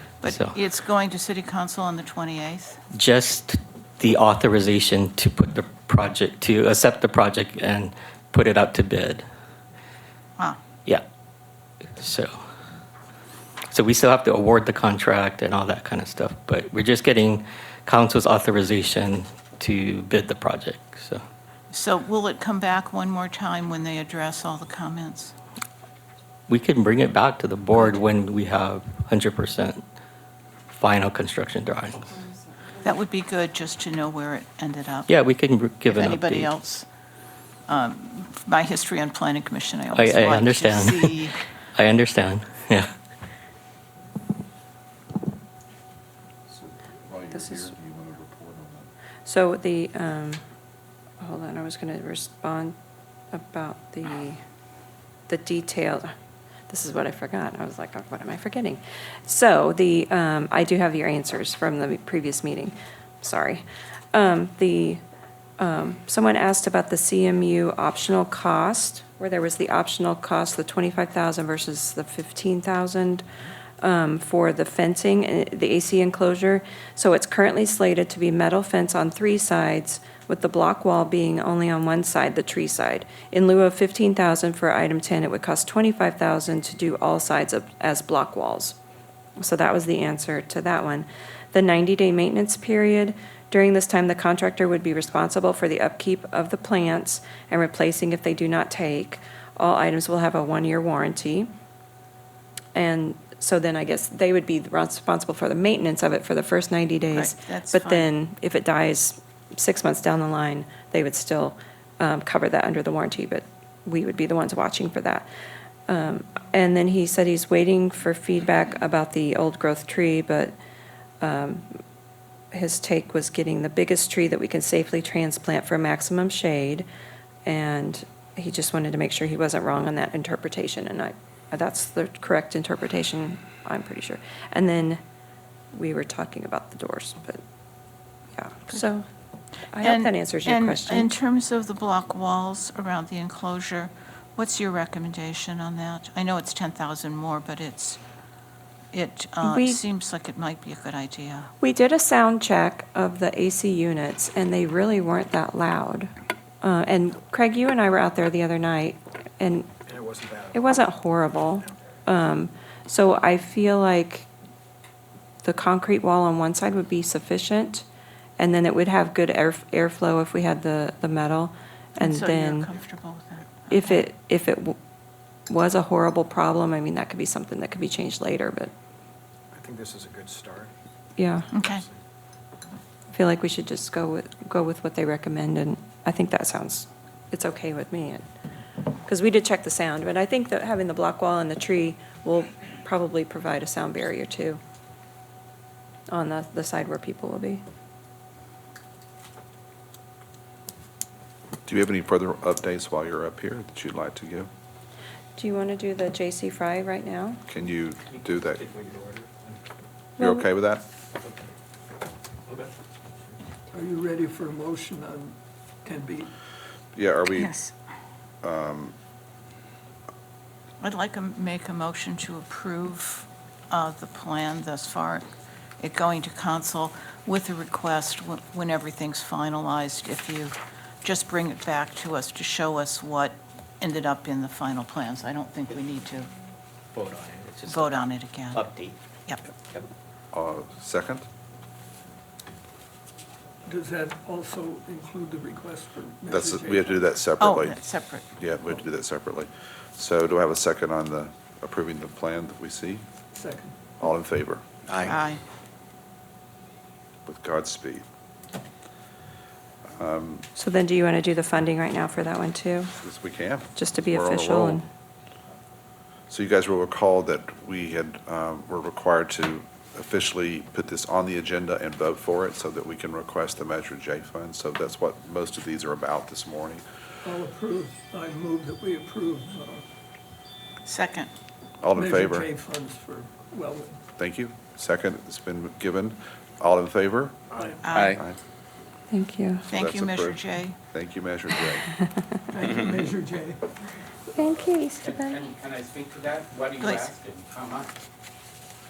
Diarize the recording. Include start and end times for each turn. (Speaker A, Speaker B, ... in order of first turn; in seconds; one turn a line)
Speaker A: 0.2-2.8
Speaker B: 0.2-0.5
Speaker B: 2.9-9.2
Speaker B: 12.0-12.3
Speaker B: 13.7-21.2
Speaker A: 21.7-25.3
Speaker B: 26.5-29.8
Speaker B: 30.7-32.2
Speaker A: 32.8-35.1
Speaker B: 35.1-36.5
Speaker A: 35.9-36.9
Speaker A: 37.7-41.4
Speaker B: 39.9-41.2
Speaker B: 41.7-42.9
Speaker C: 46.5-48.9
Speaker D: 47.3-47.7
Speaker D: 49.2-50.4
Speaker D: 51.2-52.7
Speaker D: 53.3-54.4
Speaker D: 55.3-56.1
Speaker D: 56.7-65.0
Speaker D: 65.6-73.2
Speaker D: 73.8-88.8
Speaker D: 89.4-101.5
Speaker D: 102.7-115.3
Speaker A: 107.1-108.1
Speaker D: 115.9-120.5
Speaker D: 121.2-121.7
Speaker D: 122.5-126.8
Speaker D: 127.5-135.0
Speaker D: 135.7-137.4
Speaker D: 138.3-139.1
Speaker D: 139.7-141.1
Speaker A: 139.8-148.0
Speaker A: 148.9-151.5
Speaker D: 149.4-149.8
Speaker D: 151.6-156.1
Speaker D: 156.6-159.7
Speaker E: 159.9-160.9
Speaker D: 160.5-164.3
Speaker D: 165.4-167.8
Speaker D: 168.4-172.7
Speaker A: 172.0-174.0
Speaker D: 173.7-174.8
Speaker D: 175.5-178.7
Speaker E: 179.5-180.7
Speaker D: 181.2-181.5
Speaker A: 181.5-181.8
Speaker E: 181.6-181.9
Speaker D: 183.1-188.2
Speaker D: 189.0-194.6
Speaker D: 196.1-197.6
Speaker C: 201.7-204.5
Speaker D: 205.4-207.4
Speaker C: 207.5-208.7
Speaker E: 208.6-209.3
Speaker D: 210.2-210.5
Speaker C: 210.2-210.8
Speaker F: 213.7-216.3
Speaker C: 216.9-217.5
Speaker A: 217.3-217.7
Speaker C: 218.4-218.9
Speaker A: 220.8-225.2
Speaker A: 225.8-236.3
Speaker A: 237.6-238.7
Speaker C: 240.3-241.2
Speaker F: 243.7-247.1
Speaker C: 246.3-253.0
Speaker A: 247.4-248.2
Speaker F: 253.3-253.8
Speaker C: 254.0-254.7
Speaker A: 255.0-255.4
Speaker C: 257.2-258.0
Speaker C: 259.9-260.4
Speaker D: 260.6-262.9
Speaker C: 263.0-264.8
Speaker D: 263.7-264.8
Speaker C: 266.3-276.8
Speaker F: 277.2-279.8
Speaker A: 280.9-281.3
Speaker C: 281.8-282.5
Speaker F: 281.9-284.0
Speaker C: 284.2-288.4
Speaker A: 287.8-288.2
Speaker D: 289.1-289.6
Speaker C: 289.7-291.9
Speaker A: 289.7-290.8
Speaker F: 292.5-293.6
Speaker D: 294.3-295.5
Speaker G: 295.0-297.9
Speaker A: 296.8-297.1